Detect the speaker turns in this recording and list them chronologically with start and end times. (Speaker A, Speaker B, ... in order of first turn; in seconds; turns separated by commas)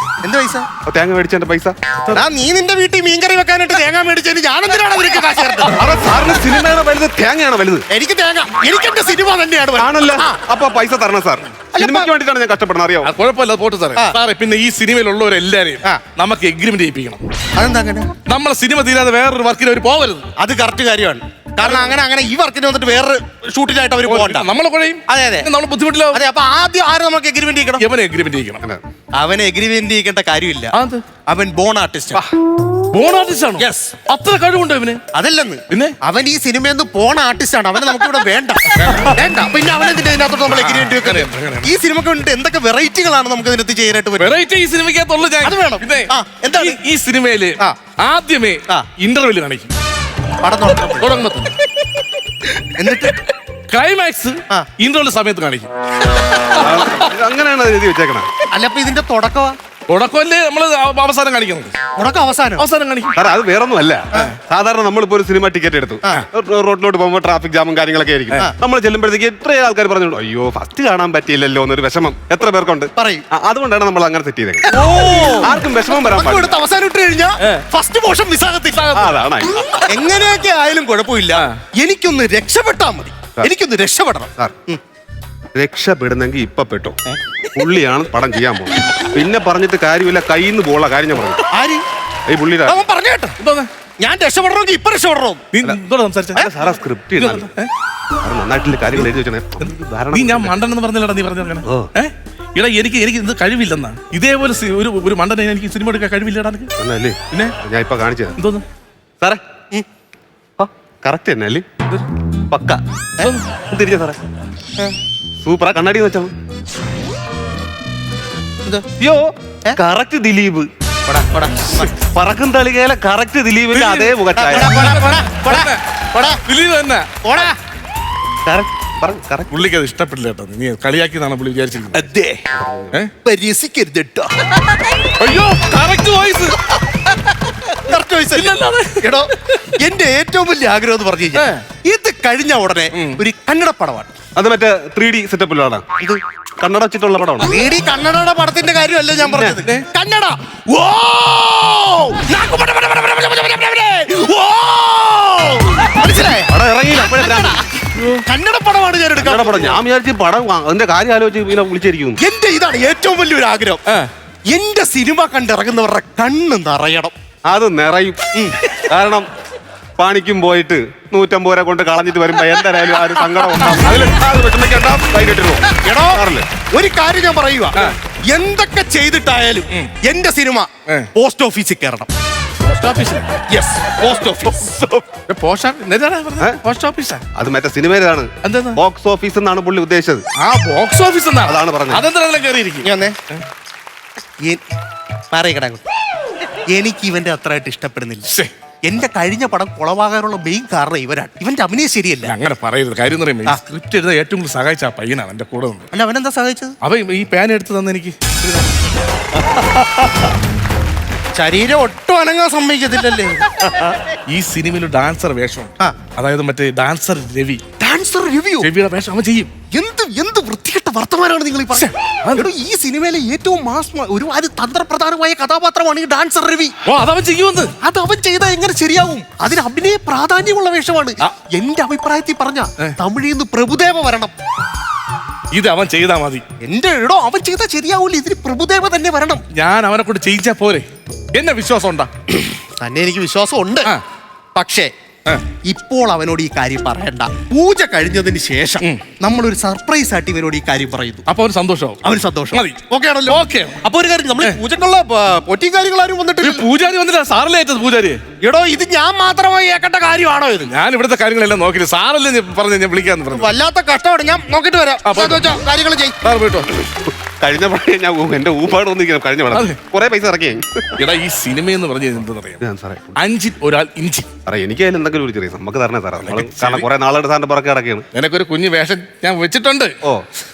Speaker A: 0.2-0.7, Speaker B: 0.8-2.2, Speaker A: 2.1-6.0, Speaker B: 5.7-7.8, Speaker A: 7.9-10.4, Speaker B: 9.8-13.1, Speaker A: 11.7-12.1, Speaker C: 13.0-17.2, Speaker A: 17.6-18.1, Speaker C: 18.3-20.2, Speaker A: 20.4-24.5, Speaker C: 24.1-26.2, Speaker A: 25.1-25.5, Speaker A: 26.1-27.8, Speaker C: 27.8-28.6, Speaker A: 29.2-30.7, Speaker C: 30.7-31.0, Speaker A: 31.3-32.2, Speaker C: 32.9-35.0, Speaker A: 33.6-34.0, Speaker A: 35.1-44.4, Speaker C: 35.7-36.0, Speaker C: 38.7-39.1, Speaker C: 40.5-41.7, Speaker C: 44.2-49.7, Speaker A: 45.4-46.8, Speaker A: 50.4-51.1, Speaker C: 51.0-51.6, Speaker A: 52.8-53.2, Speaker C: 53.7-55.7, Speaker C: 56.3-56.7, Speaker B: 56.6-58.3, Speaker A: 58.5-59.6, Speaker C: 59.9-61.7, Speaker A: 62.0-62.6, Speaker C: 62.6-63.2, Speaker B: 63.1-76.6, Speaker A: 73.0-73.2, Speaker A: 74.7-78.8, Speaker C: 78.7-79.2, Speaker B: 78.9-79.6, Speaker A: 79.8-84.8, Speaker B: 85.5-87.0, Speaker B: 87.5-91.4, Speaker A: 91.5-91.8, Speaker B: 92.3-92.8, Speaker A: 92.7-93.3, Speaker C: 93.4-93.7, Speaker A: 94.0-95.4, Speaker C: 95.5-96.5, Speaker B: 96.3-97.5, Speaker C: 97.2-97.7, Speaker B: 98.2-100.5, Speaker C: 99.6-106.7, Speaker B: 101.6-101.9, Speaker B: 106.8-108.4, Speaker C: 108.4-108.6, Speaker B: 110.6-112.8, Speaker C: 113.2-113.5, Speaker B: 113.7-114.2, Speaker B: 115.4-116.3, Speaker B: 119.0-120.7, Speaker A: 121.1-121.9, Speaker B: 121.9-124.8, Speaker C: 123.7-125.8, Speaker A: 124.3-126.4, Speaker C: 126.4-127.1, Speaker A: 127.2-127.5, Speaker B: 128.4-129.5, Speaker C: 129.5-132.0, Speaker A: 131.9-132.4, Speaker B: 132.5-133.0, Speaker A: 133.2-134.8, Speaker C: 135.2-136.6, Speaker A: 137.7-144.1, Speaker C: 138.3-139.6, Speaker C: 141.3-141.6, Speaker B: 144.3-145.8, Speaker B: 146.6-147.5, Speaker A: 147.4-157.6, Speaker B: 149.2-149.6, Speaker B: 156.5-157.6, Speaker C: 157.9-158.2, Speaker A: 158.2-159.8, Speaker B: 159.2-162.2, Speaker A: 162.2-163.8, Speaker A: 164.5-167.1, Speaker B: 167.5-169.3, Speaker A: 168.3-168.6, Speaker B: 170.0-176.5, Speaker A: 175.7-182.1, Speaker C: 182.7-183.4, Speaker A: 183.5-184.8, Speaker C: 184.7-187.2, Speaker B: 187.3-190.2, Speaker C: 188.4-188.8, Speaker C: 190.4-193.4, Speaker B: 191.4-192.0, Speaker A: 192.8-193.2, Speaker A: 195.3-195.8, Speaker A: 196.7-198.3, Speaker A: 198.8-202.3, Speaker C: 202.2-205.9, Speaker A: 205.9-206.8, Speaker C: 206.8-208.6, Speaker A: 211.3-213.9, Speaker C: 214.3-217.6, Speaker A: 217.8-218.7, Speaker C: 218.6-219.5, Speaker A: 219.7-226.7, Speaker C: 226.8-227.7, Speaker A: 227.8-234.3, Speaker C: 235.5-236.4, Speaker A: 236.6-239.4, Speaker C: 239.5-242.1, Speaker A: 242.3-243.9, Speaker A: 244.5-244.9, Speaker A: 245.7-251.2, Speaker C: 251.3-252.0, Speaker A: 252.0-256.6, Speaker C: 252.5-253.8, Speaker C: 256.4-258.2, Speaker A: 258.4-260.7, Speaker C: 260.7-263.5, Speaker A: 263.3-266.1, Speaker C: 265.0-265.6, Speaker C: 266.2-266.7, Speaker B: 266.8-271.0, Speaker C: 271.0-272.6, Speaker B: 272.6-273.2, Speaker C: 273.2-274.3, Speaker B: 274.4-278.0, Speaker C: 276.2-276.9, Speaker C: 278.1-279.9